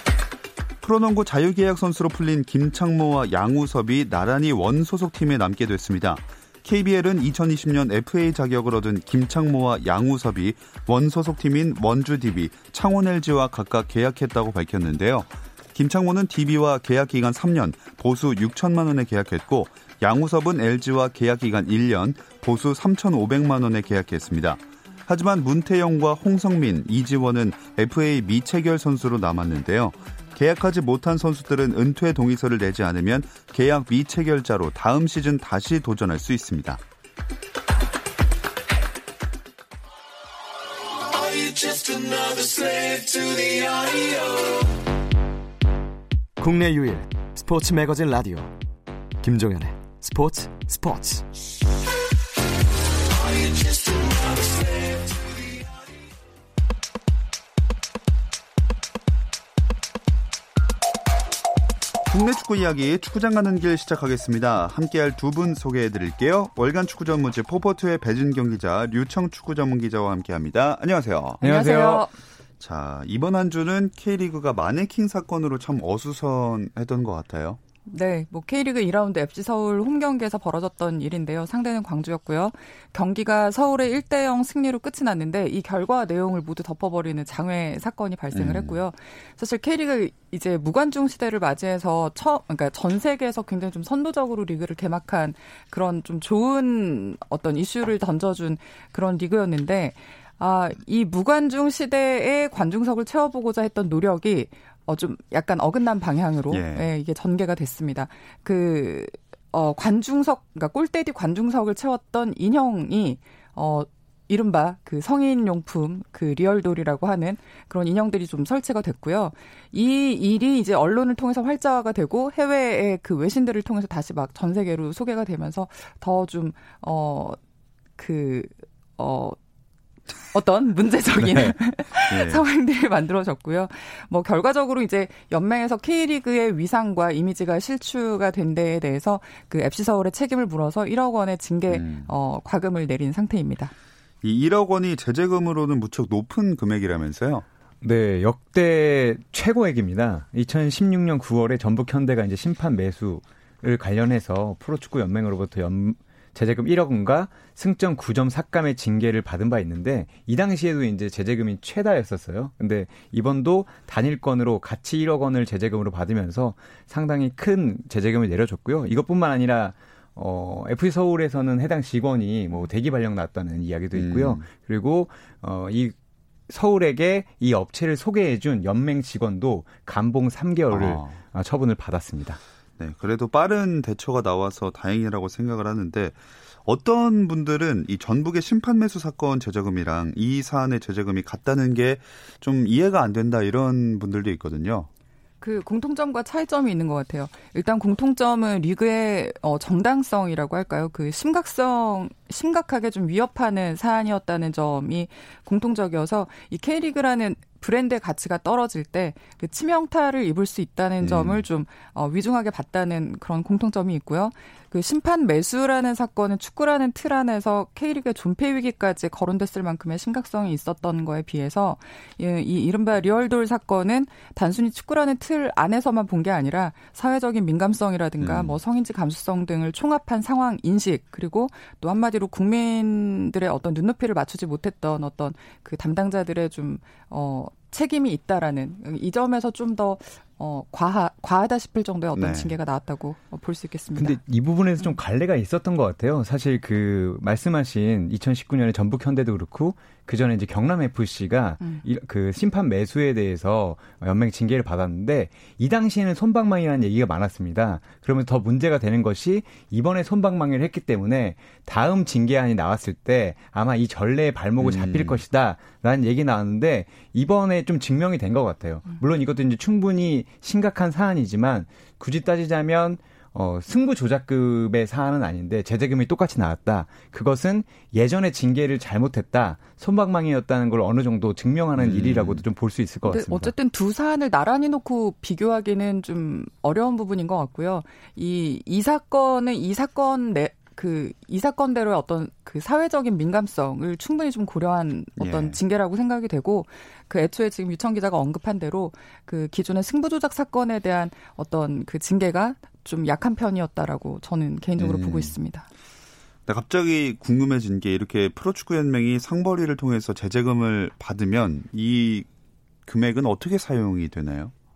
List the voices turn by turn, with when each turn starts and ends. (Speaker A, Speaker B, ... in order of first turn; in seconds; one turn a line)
Speaker A: 0.8-36.8
Speaker B: 41.1-44.6
Speaker B: 46.4-48.6
Speaker B: 49.2-51.3
Speaker B: 53.2-55.3
Speaker A: 62.1-71.4
Speaker C: 71.4-72.1
Speaker D: 71.4-72.1
Speaker A: 72.6-77.6
Speaker D: 77.9-127.4
Speaker A: 88.3-88.8
Speaker A: 106.5-106.9
Speaker D: 128.0-129.4
Speaker D: 130.3-143.7
Speaker A: 131.3-131.5
Speaker A: 132.1-132.4
Speaker A: 141.7-142.1
Speaker A: 144.2-147.5
Speaker C: 147.8-175.9
Speaker A: 173.9-174.4
Speaker C: 176.5-182.4
Speaker A: 180.7-181.2
Speaker A: 182.8-194.9
Speaker D: 195.4-244.2
Speaker A: 211.0-211.4
Speaker A: 228.2-228.6
Speaker A: 242.2-242.6
Speaker C: 243.9-283.5
Speaker A: 264.6-265.2
Speaker A: 281.8-282.4
Speaker D: 283.1-305.7
Speaker A: 295.2-295.6
Speaker A: 304.8-305.4
Speaker A: 306.5-312.3
Speaker A: 312.9-314.5